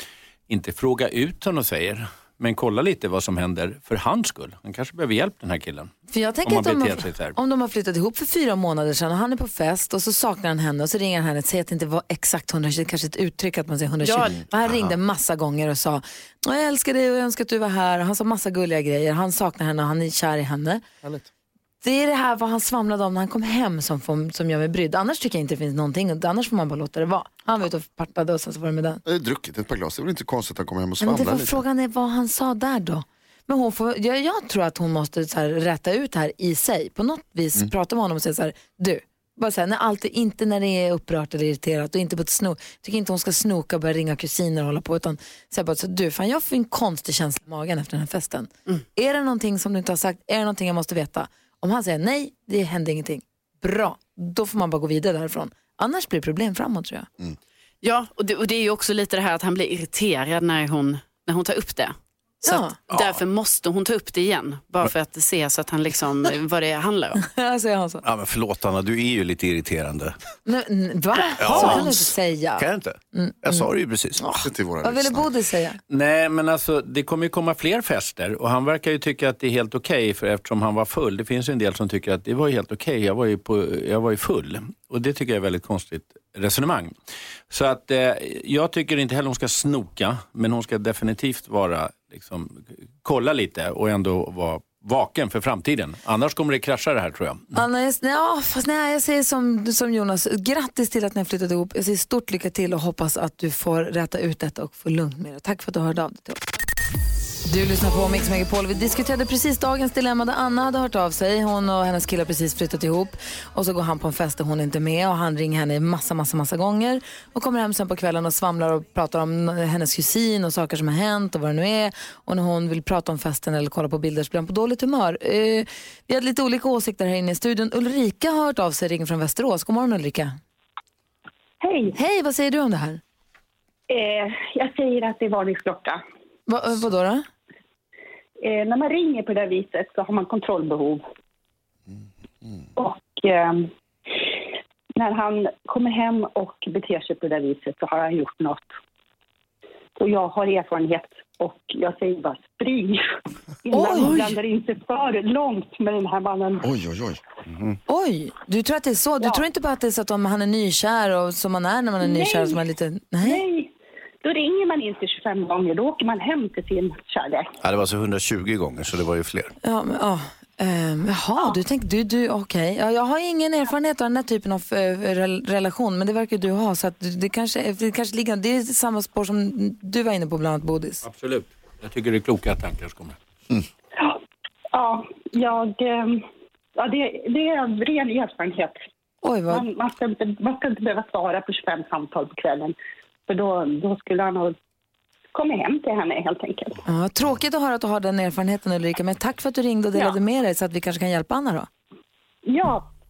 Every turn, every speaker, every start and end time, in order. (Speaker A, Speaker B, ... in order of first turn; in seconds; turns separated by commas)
Speaker A: 0.5-5.9, Speaker B: 6.1-20.8, Speaker A: 6.4-7.3, Speaker C: 14.0-14.4, Speaker B: 21.8-29.0, Speaker D: 29.0-31.6, Speaker B: 31.0-57.1, Speaker C: 57.8-67.2, Speaker B: 62.4-62.8, Speaker E: 62.9-63.2, Speaker B: 67.2-68.0, Speaker E: 68.0-70.2, Speaker B: 70.5-75.8, Speaker E: 71.4-74.2, Speaker D: 74.4-75.3, Speaker A: 75.9-86.9, Speaker A: 87.5-97.5, Speaker B: 97.5-106.4, Speaker B: 107.5-130.4, Speaker F: 131.6-132.0, Speaker B: 131.9-133.0, Speaker F: 133.9-136.0, Speaker B: 136.5-137.3, Speaker F: 138.4-141.0, Speaker F: 142.8-143.7, Speaker F: 144.9-148.7, Speaker F: 150.0-153.0, Speaker F: 153.6-156.7, Speaker B: 153.7-154.3, Speaker D: 156.6-157.2, Speaker E: 157.5-157.8, Speaker B: 157.9-163.4, Speaker F: 162.0-162.6, Speaker F: 163.2-163.7, Speaker F: 164.2-167.5, Speaker E: 167.6-169.5, Speaker B: 169.6-181.0, Speaker A: 181.0-183.2, Speaker F: 184.7-186.2, Speaker F: 186.8-188.8, Speaker B: 189.2-189.7, Speaker F: 189.5-192.8, Speaker F: 193.3-194.6, Speaker F: 195.3-196.8, Speaker B: 196.8-201.7, Speaker F: 202.4-202.9